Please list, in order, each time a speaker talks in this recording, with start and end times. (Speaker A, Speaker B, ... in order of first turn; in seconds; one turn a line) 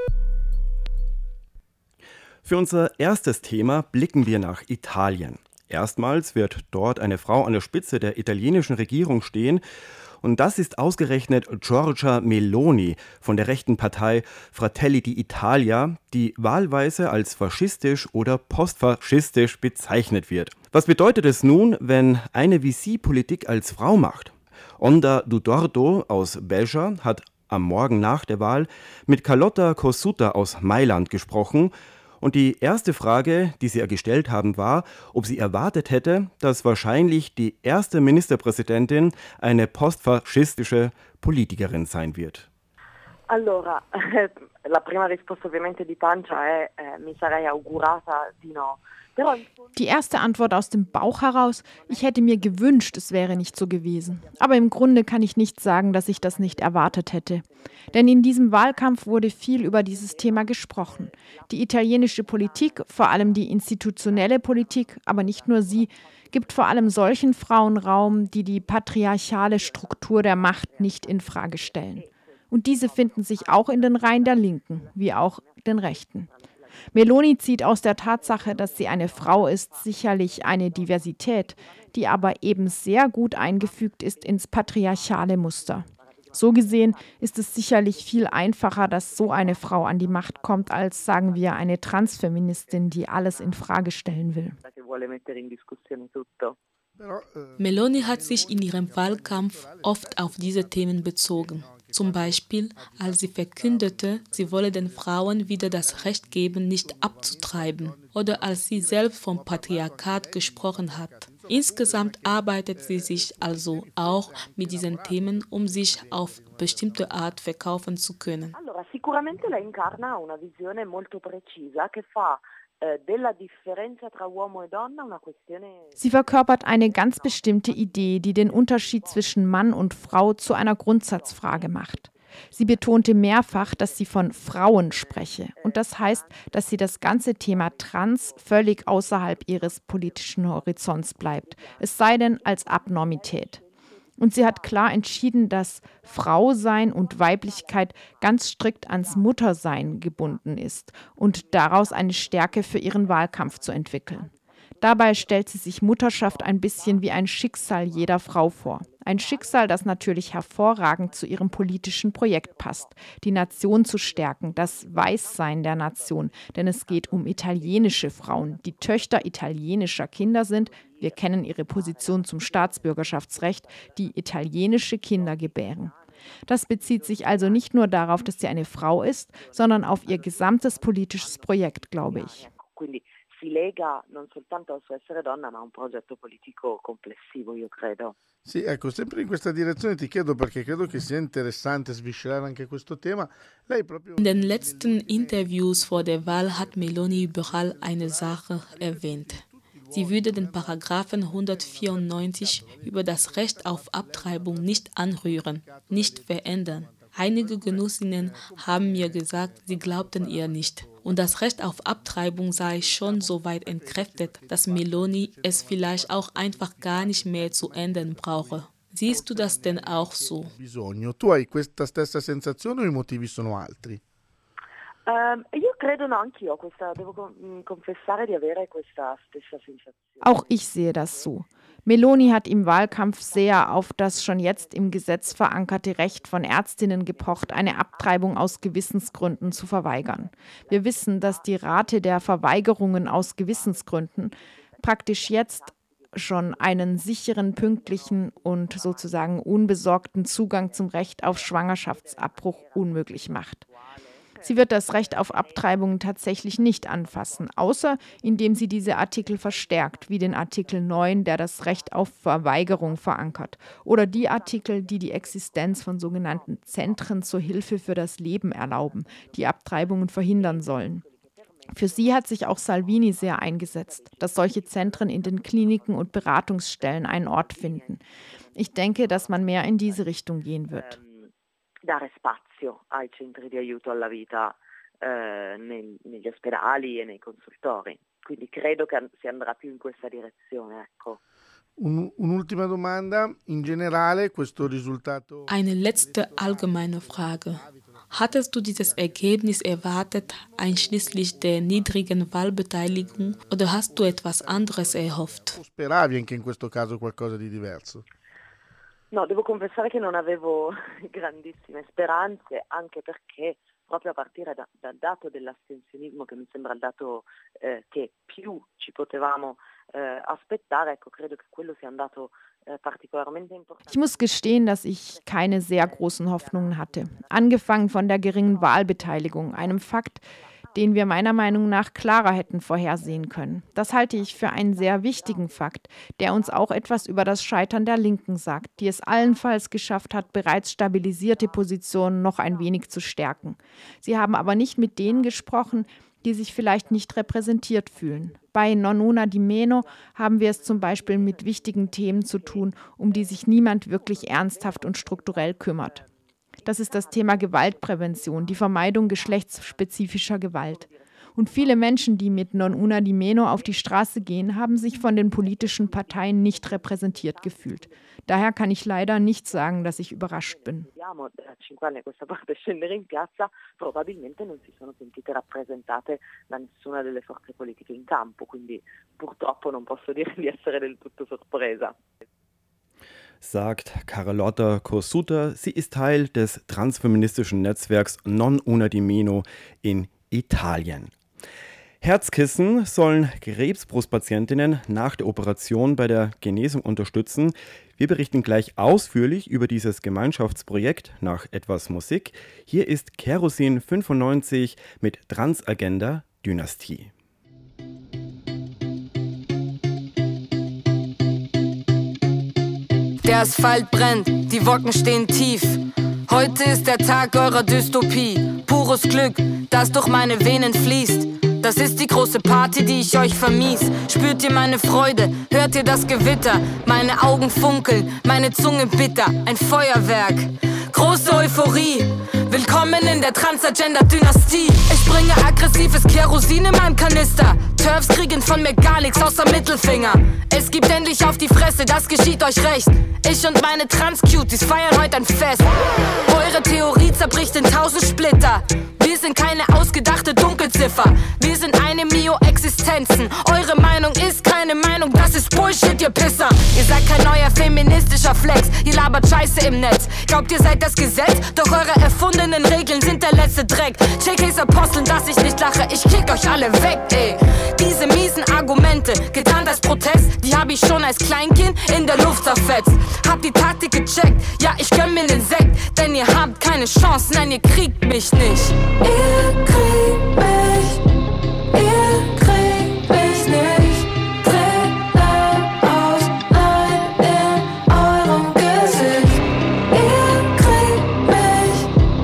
Speaker A: 2.5-9.6
Speaker A: 10.2-42.5
Speaker B: 43.3-49.5
Speaker C: 49.8-76.3
Speaker C: 76.9-94.6
Speaker B: 94.6-96.6
Speaker D: 97.0-100.5
Speaker E: 97.6-118.5
Speaker D: 101.4-103.0
Speaker D: 104.4-105.0
Speaker D: 107.2-115.2
Speaker D: 116.3-116.6
Speaker B: 118.5-125.9
Speaker C: 126.0-143.6
Speaker C: 144.2-175.9
Speaker C: 176.5-182.5
Speaker B: 182.5-188.2
Speaker D: 188.4-200.8
Speaker E: 194.2-220.5
Speaker D: 201.7-202.8
Speaker D: 203.6-204.7
Speaker D: 205.6-206.2
Speaker D: 206.9-211.0
Speaker D: 212.8-218.6
Speaker D: 219.1-224.0
Speaker B: 225.1-230.0
Speaker C: 230.2-253.7
Speaker C: 254.4-271.0
Speaker C: 271.7-278.0
Speaker C: 278.6-280.9
Speaker B: 280.9-281.3
Speaker B: 281.9-291.2
Speaker D: 291.8-295.5
Speaker E: 295.5-305.6
Speaker D: 304.5-308.0
Speaker B: 309.1-323.9
Speaker C: 323.9-356.1
Speaker C: 356.6-370.9
Speaker B: 370.9-381.9
Speaker A: 383.4-391.1
Speaker A: 392.0-407.1
Speaker F: 413.2-478.8
Speaker G: 479.1-480.7
Speaker G: 481.8-483.9
Speaker G: 484.5-487.4
Speaker G: 487.9-489.2
Speaker G: 489.9-491.7